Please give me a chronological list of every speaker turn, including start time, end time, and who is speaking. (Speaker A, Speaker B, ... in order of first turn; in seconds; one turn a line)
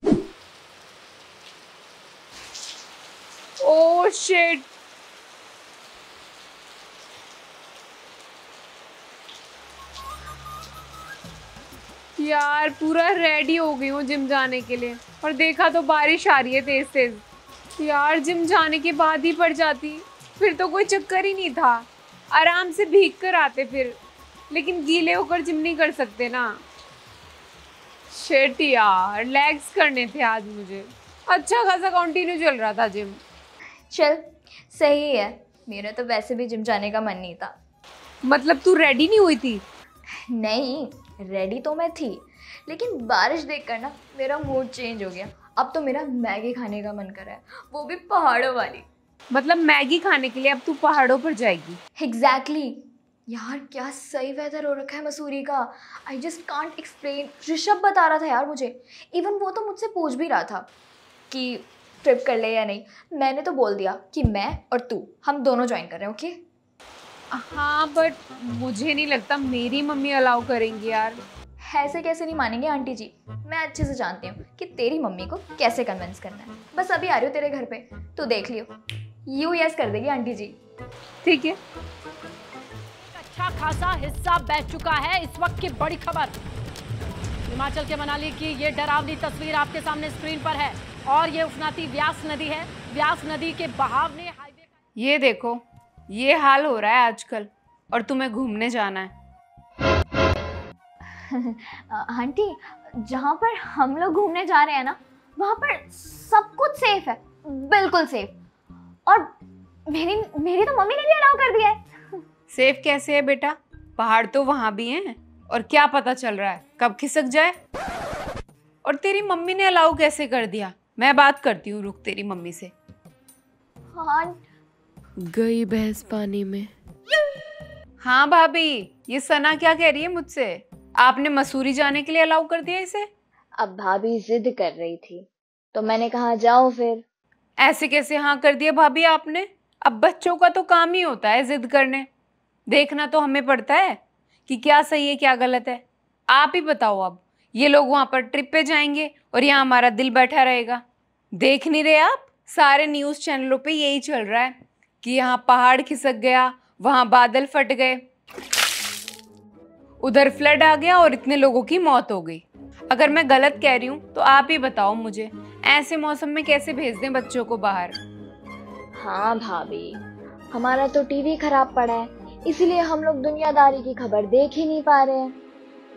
Speaker A: 3.6-4.7
Speaker A: 12.2-17.2
Speaker A: 17.8-24.0
Speaker A: 24.5-26.6
Speaker A: 28.1-33.2
Speaker B: 33.9-37.5
Speaker A: 38.2-39.6
Speaker B: 40.2-48.9
Speaker A: 49.3-51.8
Speaker B: 52.0-60.7
Speaker B: 61.3-66.4
Speaker A: 67.3-71.2
Speaker B: 71.6-78.7
Speaker B: 79.3-80.6
Speaker A: 81.2-81.6
Speaker C: 83.0-86.4
Speaker C: 87.5-94.7
Speaker A: 95.0-99.1
Speaker B: 101.1-108.3
Speaker B: 109.1-109.3
Speaker B: 109.9-112.0
Speaker A: 112.5-117.5
Speaker A: 118.8-122.7
Speaker B: 123.9-124.4
Speaker A: 125.3-126.7
Speaker A: 128.0-133.1
Speaker B: 133.6-137.1
Speaker A: 137.6-142.1
Speaker A: 142.7-150.8
Speaker A: 151.4-158.0
Speaker A: 160.0-168.0
Speaker B: 169.0-175.4